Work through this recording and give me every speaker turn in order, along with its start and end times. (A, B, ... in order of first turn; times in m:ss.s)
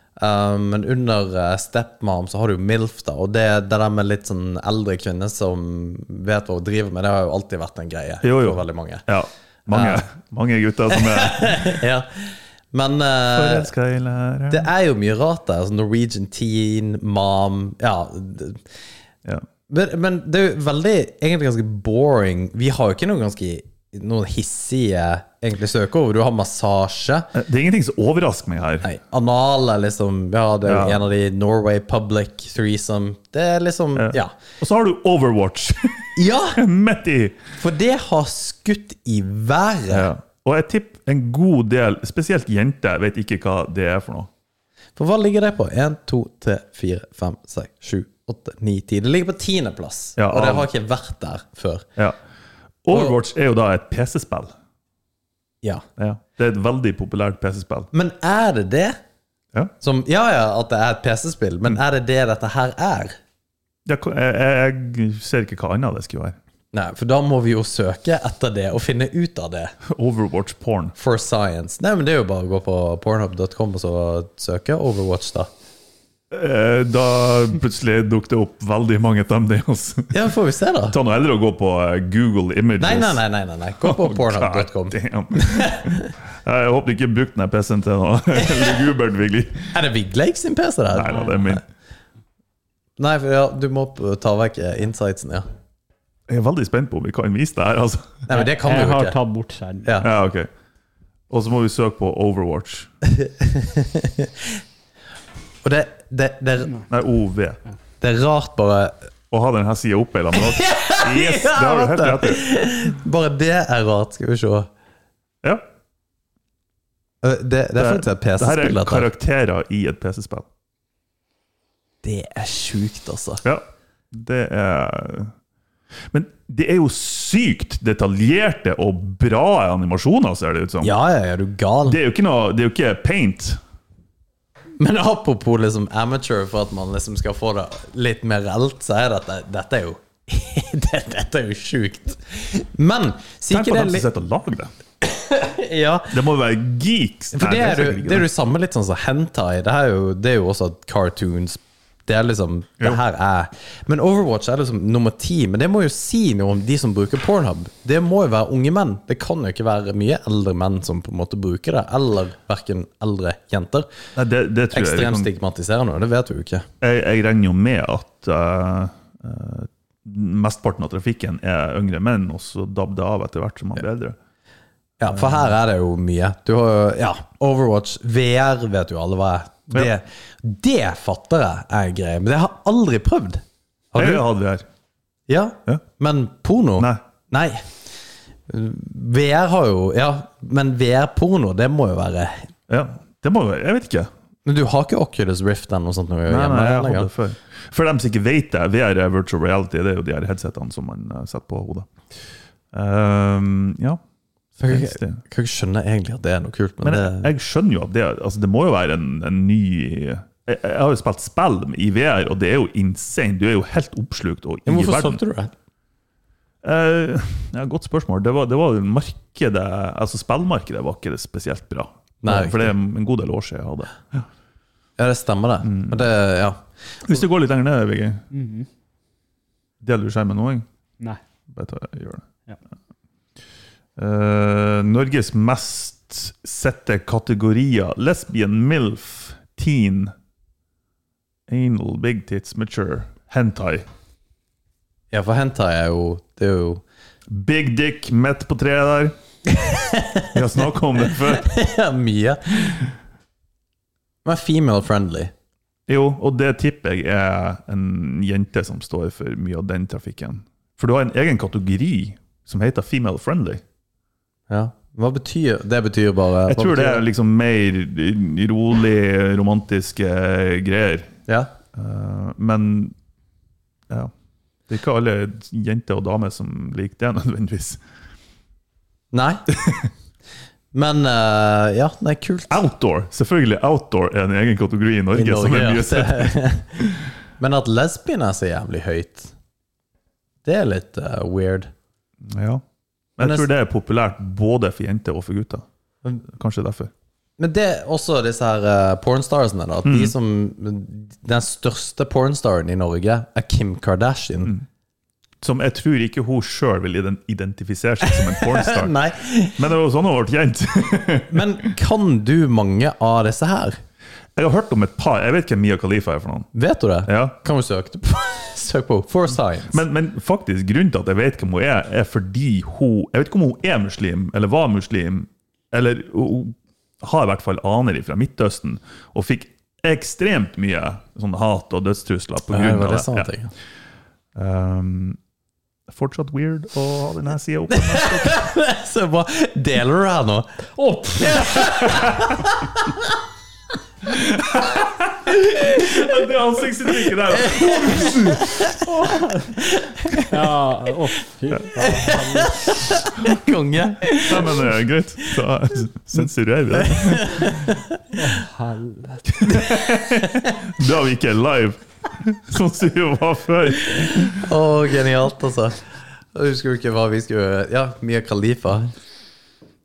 0:00.2-0:09.0 A
0:08.2-0:11.8 B
0:09.7-0:10.0 A
0:10.9-0:13.7 A
0:13.4-0:14.7 B
0:14.5-0:18.6 A
0:19.7-0:27.3 A
0:27.3-0:28.9 B
0:28.8-0:34.3 A
0:30.7-0:31.0 B
0:34.0-0:37.4 B
0:36.2-0:36.6 A
0:37.6-0:40.1 A
0:39.9-0:44.3 B
0:45.0-0:51.9 A
0:50.2-0:50.7 B
0:52.8-0:54.5 B
0:52.9-0:53.2 A
0:56.0-0:57.9 B
0:57.9-0:59.0 A
0:59.8-1:03.2 A
1:03.9-1:06.4 B
1:06.7-1:09.8 A
1:09.9-1:10.9 B
1:11.0-1:15.5 A
1:16.3-1:20.2 B
1:20.1-1:21.0 A
1:20.9-1:23.2 B
1:22.8-1:26.1 A
1:23.8-1:29.7 B
1:28.4-1:28.8 A
1:29.7-1:31.6 A
1:30.9-1:31.6 B
1:33.0-1:35.5 A
1:36.3-1:38.2 B
1:38.3-1:39.2 A
1:38.3-1:40.0 C
1:39.8-1:40.1 A
1:40.0-1:40.5 B
1:41.3-1:42.9 B
1:43.0-1:44.6 A
1:45.6-1:46.8 A
1:46.9-1:47.6 B
1:48.0-1:49.1 A
1:49.3-1:52.5 B
1:50.3-1:54.7 A
1:57.2-1:59.1 A
1:57.8-2:00.5 B
2:02.0-2:03.4 A
2:03.4-2:05.3 B
2:06.1-2:10.9 B
2:10.8-2:12.0 A
2:11.8-2:13.6 B
2:14.8-2:24.1 A
2:23.5-2:24.7 B
2:25.0-2:26.2 A
2:26.1-2:28.3 B
2:27.3-2:43.9 A
2:44.2-2:45.3 B
2:44.7-2:46.7 A
2:46.8-2:54.2 B
2:55.0-3:04.2 A
3:04.0-3:04.6 B
3:05.3-3:07.7 A
3:08.5-3:12.5 A
3:12.7-3:14.1 B
3:14.4-3:17.1 A
3:16.3-3:21.9 B
3:22.7-3:24.0 B
3:24.6-3:25.2 B
3:24.6-3:27.3 A
3:26.8-3:35.2 B
3:34.7-3:35.5 A
3:36.6-3:44.2 B
3:42.2-3:42.7 A
3:45.0-3:46.6 A
3:45.6-3:46.0 B
3:47.0-3:48.2 B
3:48.3-3:48.7 C
3:49.8-3:50.7 B
3:51.5-3:52.2 B
3:54.0-4:00.1 B
4:01.5-4:03.8 B
4:05.1-4:06.8 A
4:07.3-4:09.1 B
4:09.5-4:12.8 A
4:10.3-4:11.5 B
4:14.2-4:15.3 A
4:15.9-4:23.6 B
4:24.5-4:27.0 A
4:26.5-4:31.2 B
4:31.8-4:32.9 B
4:34.7-4:37.8 B
4:39.1-4:39.4 A
4:39.5-4:39.9 B
4:40.7-4:42.6 A
4:42.5-4:47.0 B
4:45.1-4:46.8 A
4:47.4-4:49.3 A
4:50.4-4:51.7 A
4:52.3-4:52.6 B
4:53.2-4:55.6 B
4:53.2-4:53.5 A
4:56.3-4:56.9 B
4:57.4-5:04.5 A
4:59.8-5:00.1 B
5:05.4-5:09.0 B
5:08.0-5:09.6 A
5:09.6-5:11.7 B
5:11.3-5:13.8 A
5:14.4-5:16.5 B
5:16.5-5:19.8 A
5:17.1-5:17.4 B
5:19.7-5:33.3 B
5:32.5-5:33.5 A
5:34.4-5:35.2 B
5:35.9-5:38.4 B
5:37.7-5:40.5 A
5:40.8-5:41.7 C
5:41.2-5:43.2 A
5:41.9-5:42.2 B
5:44.1-5:48.8 B
5:45.5-5:46.3 A
5:46.8-5:50.3 A
5:49.0-5:49.5 C
5:50.3-5:52.7 C
5:51.7-5:55.3 A
5:54.2-5:57.7 B
5:56.7-5:58.0 A
5:58.1-5:59.2 C
5:59.3-6:04.5 B
5:59.5-6:00.5 A
6:03.9-6:08.9 A